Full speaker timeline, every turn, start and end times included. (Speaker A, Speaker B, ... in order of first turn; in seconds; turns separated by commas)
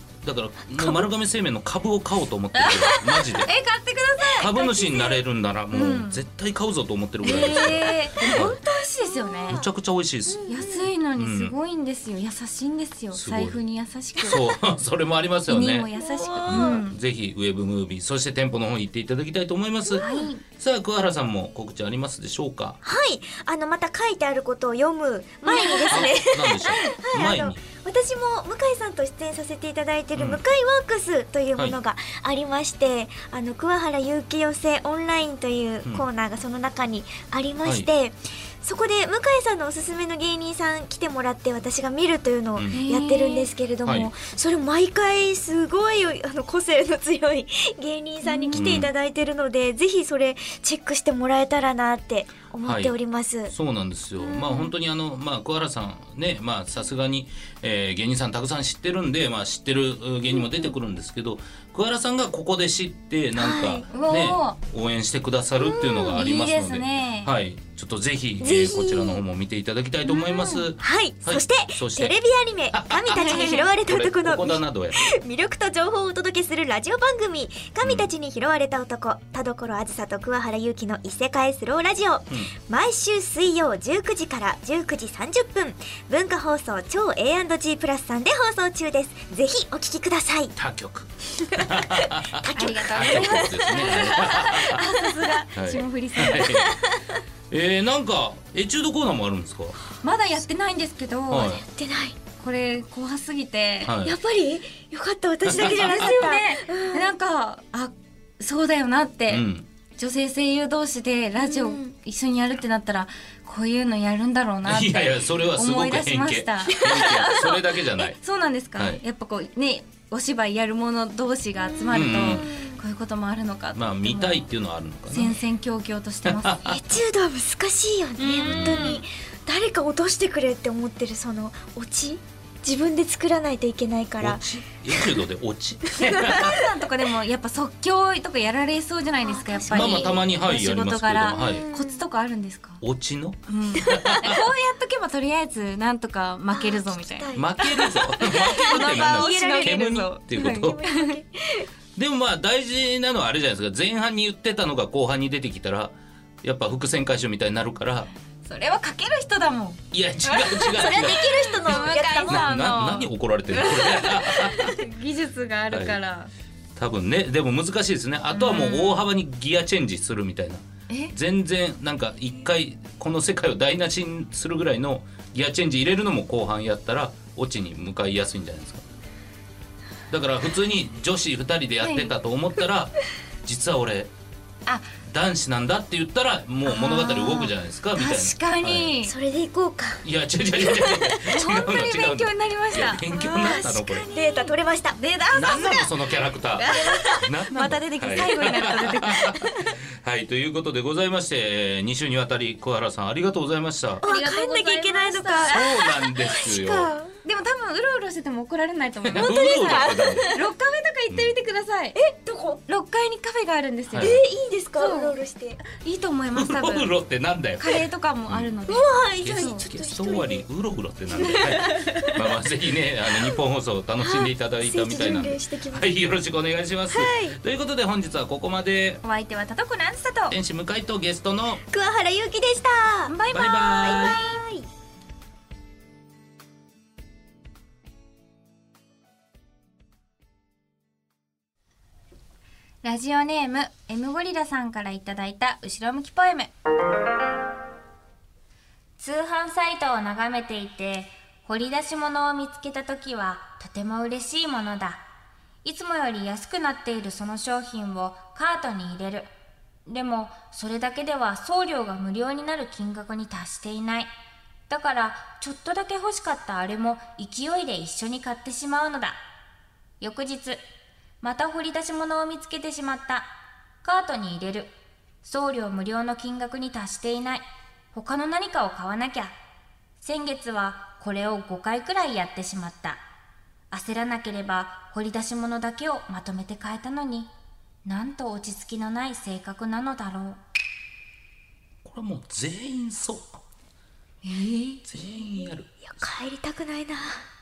Speaker A: 0.2-3.5, Speaker B: 0.8-1.1, Speaker C: 2.5-5.2, Speaker A: 4.4-8.6, Speaker C: 5.7-6.2, Speaker C: 7.2-9.6, Speaker B: 7.3-9.7, Speaker A: 9.5-10.5, Speaker B: 10.3-10.9, Speaker C: 10.5-14.4, Speaker A: 11.2-11.5, Speaker A: 13.1-13.6, Speaker A: 14.3-15.9, Speaker C: 15.5-17.0, Speaker B: 16.0-16.8, Speaker A: 16.5-22.8, Speaker B: 19.9-20.3, Speaker C: 20.0-20.4, Speaker B: 22.8-53.5, Speaker C: 25.4-26.9, Speaker A: 25.9-27.6, Speaker A: 30.2-30.4, Speaker A: 42.6-42.8, Speaker C: 42.7-43.5, Speaker A: 43.9-44.1, Speaker C: 48.2-48.8, Speaker A: 48.5-48.9, Speaker A: 52.6-53.0, Speaker A: 53.5-72.2, Speaker B: 54.2-54.7, Speaker B: 63.4-63.9, Speaker C: 63.9-64.6, Speaker B: 65.7-66.2, Speaker C: 65.7-67.3, Speaker B: 68.4-69.2, Speaker C: 70.1-70.7, Speaker B: 70.8-90.6, Speaker A: 72.7-75.0, Speaker C: 73.2-73.7, Speaker A: 90.6-94.9, Speaker B: 91.5-95.4, Speaker C: 92.5-96.6, Speaker A: 95.5-96.8, Speaker B: 96.2-97.2, Speaker A: 97.5-99.8, Speaker C: 100.0-101.6, Speaker A: 101.3-101.6, Speaker B: 101.4-102.2, Speaker C: 102.4-104.0, Speaker A: 103.8-104.2, Speaker B: 104.0-107.2, Speaker A: 105.4-106.2, Speaker C: 105.6-109.5, Speaker A: 109.3-109.7, Speaker C: 110.0-124.4, Speaker B: 111.4-111.9, Speaker A: 114.7-118.2, Speaker B: 116.7-117.1, Speaker A: 118.8-119.0, Speaker B: 121.7-122.8, Speaker A: 121.9-122.5, Speaker A: 123.8-125.4, Speaker C: 125.1-126.7, Speaker A: 126.2-126.8, Speaker B: 126.6-135.2, Speaker C: 128.2-129.0, Speaker A: 128.4-129.0, Speaker A: 134.2-136.7, Speaker B: 135.9-136.6, Speaker C: 136.3-142.8, Speaker B: 139.2-140.3, Speaker A: 139.7-141.6, Speaker B: 141.3-142.1, Speaker A: 142.8-144.4, Speaker C: 143.5-151.2, Speaker B: 143.8-144.3, Speaker B: 146.5-151.7, Speaker A: 147.3-150.8, Speaker A: 152.0-158.1, Speaker C: 158.5-166.3, Speaker A: 159.9-164.8, Speaker B: 160.7-162.5, Speaker A: 165.7-166.0, Speaker A: 166.8-178.8, Speaker C: 168.3-169.1, Speaker A: 180.1-184.1, Speaker C: 181.8-182.1, Speaker A: 185.1-188.9, Speaker C: 186.7-189.1, Speaker B: 189.0-190.1, Speaker A: 190.0-194.1, Speaker B: 190.6-191.1, Speaker C: 191.2-196.0, Speaker B: 193.1-195.0, Speaker A: 195.3-204.1, Speaker C: 196.6-199.5, Speaker B: 196.7-197.3, Speaker B: 204.0-207.2, Speaker C: 204.0-205.8, Speaker A: 205.5-206.9, Speaker C: 207.2-212.0, Speaker A: 209.0-210.3, Speaker B: 209.2-210.4, Speaker A: 211.1-211.3, Speaker B: 211.9-212.6, Speaker C: 212.7-214.2, Speaker A: 213.9-214.2, Speaker B: 214.0-215.6, Speaker C: 214.8-216.9, Speaker A: 216.3-218.5, Speaker C: 217.6-219.7, Speaker B: 218.7-220.4, Speaker A: 219.2-229.0, Speaker C: 221.3-222.2, Speaker B: 221.4-222.1, Speaker B: 224.0-225.9, Speaker B: 226.9-227.4, Speaker C: 229.0-230.4, Speaker A: 230.3-231.6, Speaker B: 231.7-233.2, Speaker C: 233.1-234.2, Speaker A: 233.3-234.2, Speaker B: 233.8-234.7, Speaker C: 242.8-246.5, Speaker C: 249.0-255.0, Speaker C: 255.6-259.3, Speaker C: 259.9-264.1, Speaker C: 264.7-269.2, Speaker C: 270.0-270.6, Speaker C: 271.2-273.3, Speaker C: 273.8-274.7, Speaker C: 275.2-279.4, Speaker C: 280.0-283.0, Speaker C: 283.7-287.3, Speaker C: 287.9-290.4, Speaker A: 291.8-293.4, Speaker C: 294.2-294.8, Speaker A: 294.8-295.7, Speaker B: 295.8-297.2